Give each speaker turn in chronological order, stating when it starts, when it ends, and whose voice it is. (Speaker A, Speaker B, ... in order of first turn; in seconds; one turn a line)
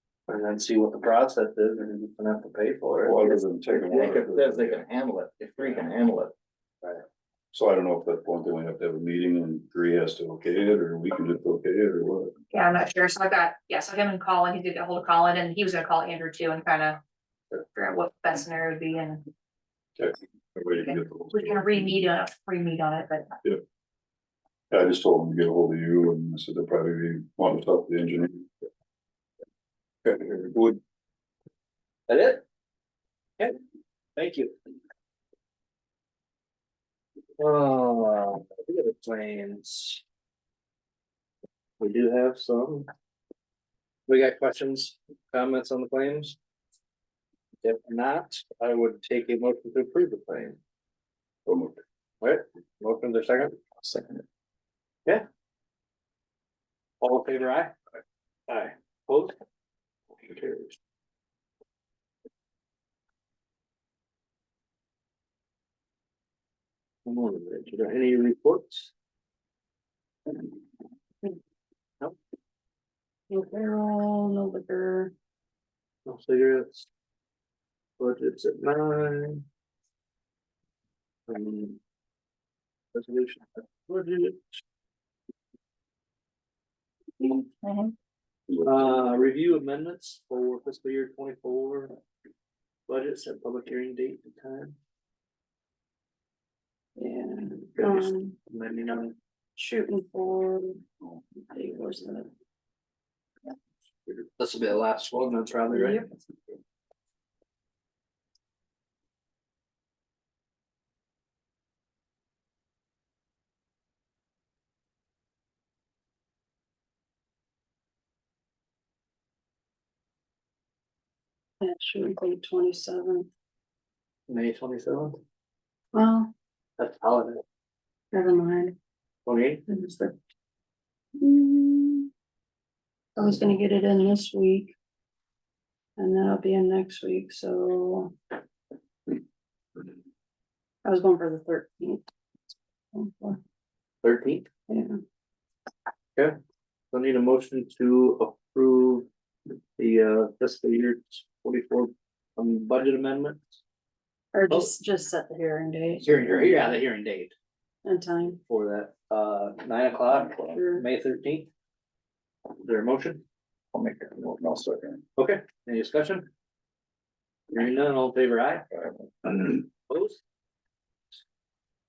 Speaker A: 0.3-3.2
Speaker B: 3.0-4.8
Speaker C: 3.8-6.3
Speaker B: 7.5-12.3
Speaker D: 12.5-17.0
Speaker D: 17.6-19.2
Speaker B: 20.0-21.9
Speaker D: 20.8-23.3
Speaker B: 24.7-28.5
Speaker B: 30.1-30.8
Speaker A: 32.1-32.4
Speaker A: 34.2-34.5
Speaker A: 37.4-40.0
Speaker A: 41.8-42.9
Speaker A: 44.1-46.4
Speaker A: 47.6-50.6
Speaker B: 51.5-51.8
Speaker A: 52.2-53.5
Speaker C: 53.8-54.2
Speaker A: 57.0-57.7
Speaker A: 58.5-59.4
Speaker A: 60.2-60.8
Speaker A: 67.0-68.9
Speaker E: 73.3-75.1
Speaker A: 76.1-76.9
Speaker A: 78.0-79.4
Speaker A: 81.3-81.8
Speaker A: 82.9-84.4
Speaker E: 87.2-87.5
Speaker D: 87.6-87.9
Speaker A: 88.6-92.0
Speaker A: 92.9-94.8
Speaker E: 97.0-98.3
Speaker A: 97.8-99.2
Speaker E: 99.6-100.8
Speaker E: 101.5-102.3
Speaker A: 104.4-106.0
Speaker E: 105.7-106.1
Speaker E: 121.6-123.3
Speaker A: 124.3-125.2
Speaker E: 125.9-126.3
Speaker A: 126.8-127.4
Speaker E: 128.1-128.8
Speaker A: 129.2-129.6
Speaker E: 129.7-130.2
Speaker E: 131.2-132.1
Speaker E: 133.2-134.7
Speaker E: 136.0-138.2
Speaker E: 140.8-142.1
Speaker E: 142.9-143.4
Speaker A: 144.0-144.5
Speaker E: 144.7-145.0
Speaker A: 146.9-149.1
Speaker A: 149.8-153.6
Speaker E: 154.3-156.3
Speaker A: 156.0-157.3
Speaker E: 157.8-158.4
Speaker A: 158.4-161.5
Speaker E: 160.2-160.8
Speaker A: 162.6-163.2
Speaker C: 163.7-165.0
Speaker A: 165.2-166.3
Speaker A: 167.5-168.7
Speaker C: 168.7-169.1
Speaker A: 169.3-170.2